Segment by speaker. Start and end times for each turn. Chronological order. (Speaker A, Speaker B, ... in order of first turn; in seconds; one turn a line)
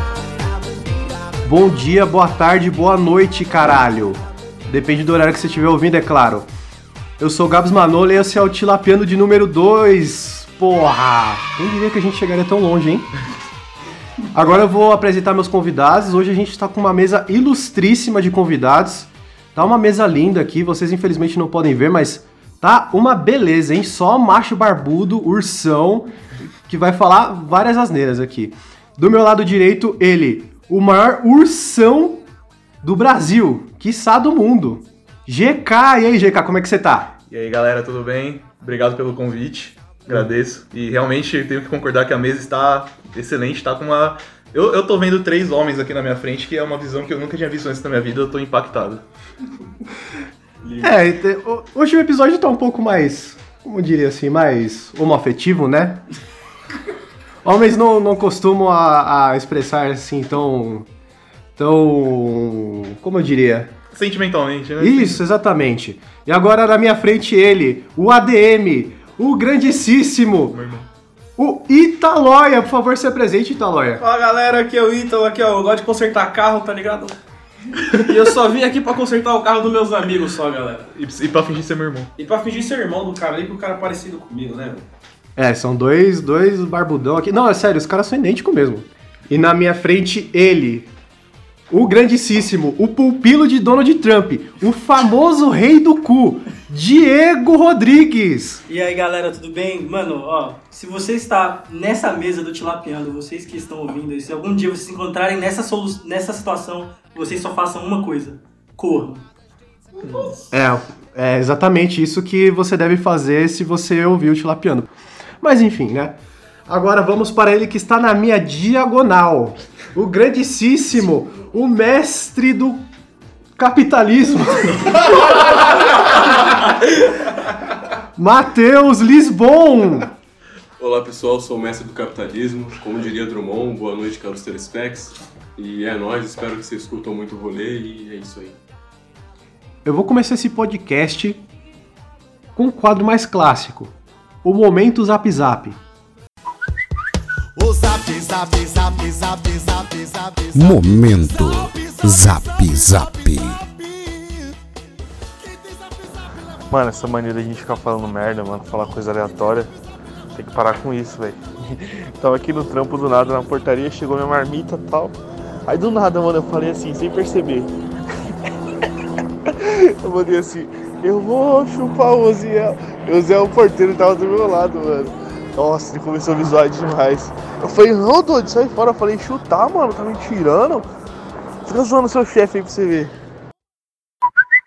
Speaker A: 1.4-6.5
Speaker A: 7.2-13.1
Speaker A: 14.3-26.1
Speaker A: 26.7-32.2
Speaker A: 32.8-37.1
Speaker B: 37.3-49.0
Speaker C: 50.6-51.0
Speaker A: 50.8-56.0
Speaker A: 57.4-60.9
Speaker A: 61.6-63.7
Speaker B: 63.9-65.2
Speaker A: 64.8-70.6
Speaker B: 70.5-70.9
Speaker A: 71.4-74.0
Speaker D: 74.0-77.2
Speaker D: 77.8-80.9
Speaker B: 80.9-82.1
Speaker D: 82.2-84.9
Speaker A: 85.4-90.9
Speaker A: 91.7-98.6
Speaker E: 98.7-109.2
Speaker E: 110.0-110.3
Speaker A: 110.5-122.9
Speaker A: 123.6-125.5
Speaker A: 128.2-130.1
Speaker C: 130.8-138.6
Speaker A: 139.8-141.4
Speaker A: 142.6-143.9
Speaker A: 144.4-145.8
Speaker F: 147.6-150.8
Speaker G: 150.5-153.6
Speaker F: 151.6-152.0
Speaker F: 153.6-154.3
Speaker F: 155.4-155.7
Speaker F: 156.7-159.7
Speaker F: 160.3-165.2
Speaker F: 165.7-167.7
Speaker F: 169.6-180.9
Speaker F: 181.7-183.1